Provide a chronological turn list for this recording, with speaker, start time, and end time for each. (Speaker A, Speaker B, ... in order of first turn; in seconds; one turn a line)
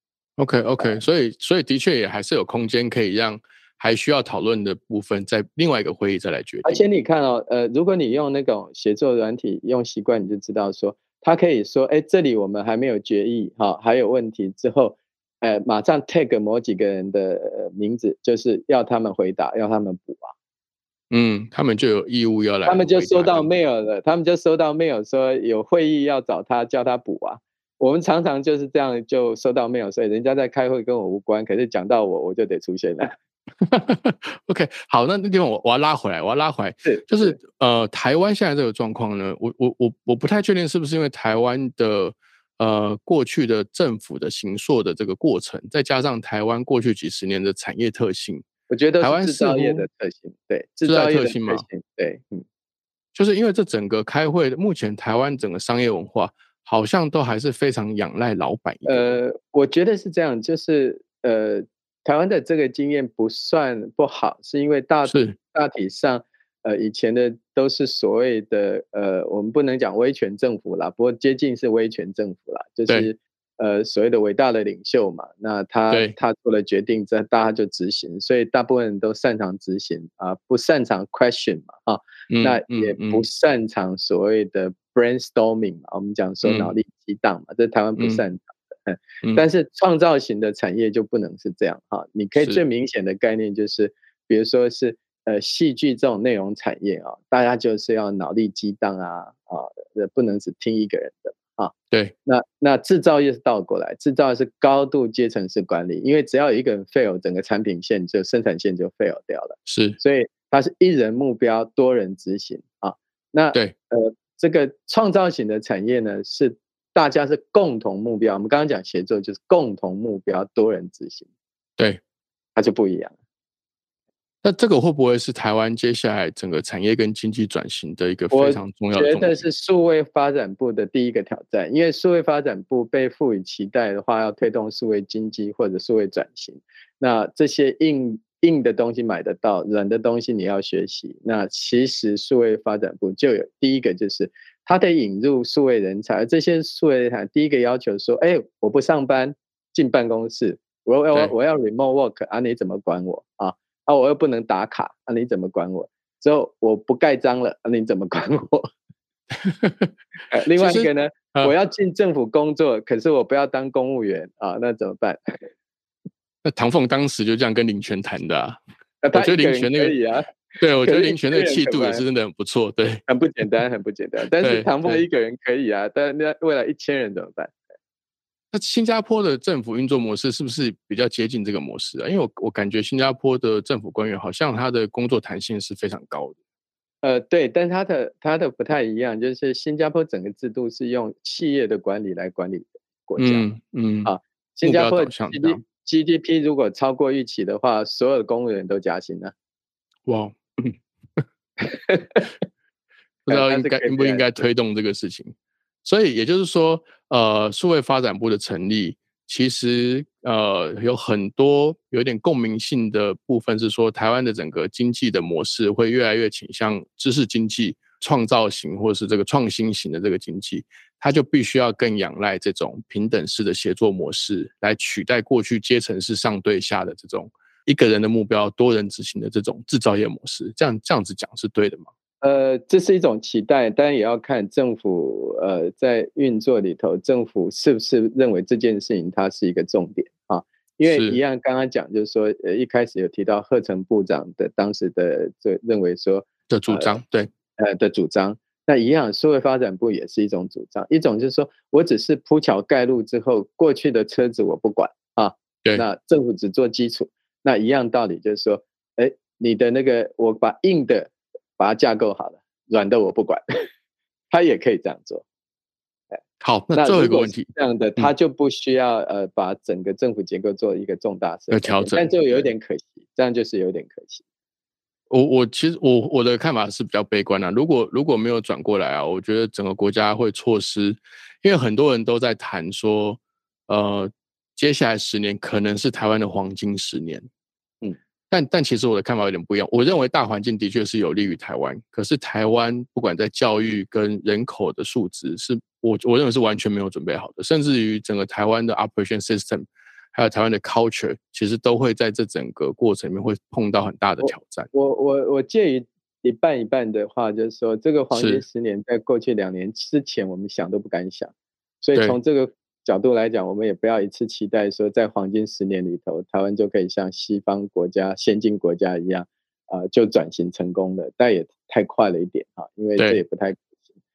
Speaker A: 0.4-6.8
Speaker B: 6.6-20.3
Speaker A: 21.1-23.5
Speaker B: 22.7-33.1
Speaker A: 33.6-48.5
Speaker B: 36.8-37.4
Speaker B: 48.7-52.5
Speaker A: 49.0-49.8
Speaker A: 50.8-51.6
Speaker A: 53.1-59.1
Speaker B: 58.8-101.7
Speaker A: 65.0-65.4
Speaker A: 82.3-83.2
Speaker A: 86.4-86.7
Speaker A: 88.0-88.2
Speaker A: 92.4-92.6
Speaker B: 102.3-121.3
Speaker A: 109.7-110.0
Speaker B: 122.5-123.1
Speaker A: 124.4-129.4
Speaker B: 128.3-158.7
Speaker A: 159.3-159.9
Speaker B: 160.3-165.4
Speaker A: 160.6-161.5
Speaker A: 166.4-168.6
Speaker B: 169.0-172.0
Speaker A: 169.1-169.9
Speaker A: 170.6-173.0
Speaker B: 173.1-177.6
Speaker A: 174.4-175.0
Speaker A: 178.5-186.4
Speaker B: 187.0-193.5
Speaker A: 193.2-194.1
Speaker B: 194.1-199.3
Speaker A: 194.6-195.6
Speaker A: 200.1-201.2
Speaker B: 201.6-202.3
Speaker A: 203.3-231.9
Speaker B: 203.3-204.4
Speaker B: 232.2-246.9
Speaker A: 240.9-241.2
Speaker A: 246.5-247.3
Speaker B: 247.6-263.4
Speaker B: 264.3-265.2
Speaker A: 266.4-268.1
Speaker B: 266.7-274.2
Speaker A: 271.5-272.5
Speaker A: 275.1-287.3
Speaker A: 288.3-304.7
Speaker B: 304.2-311.3
Speaker A: 308.1-308.4
Speaker B: 311.8-323.6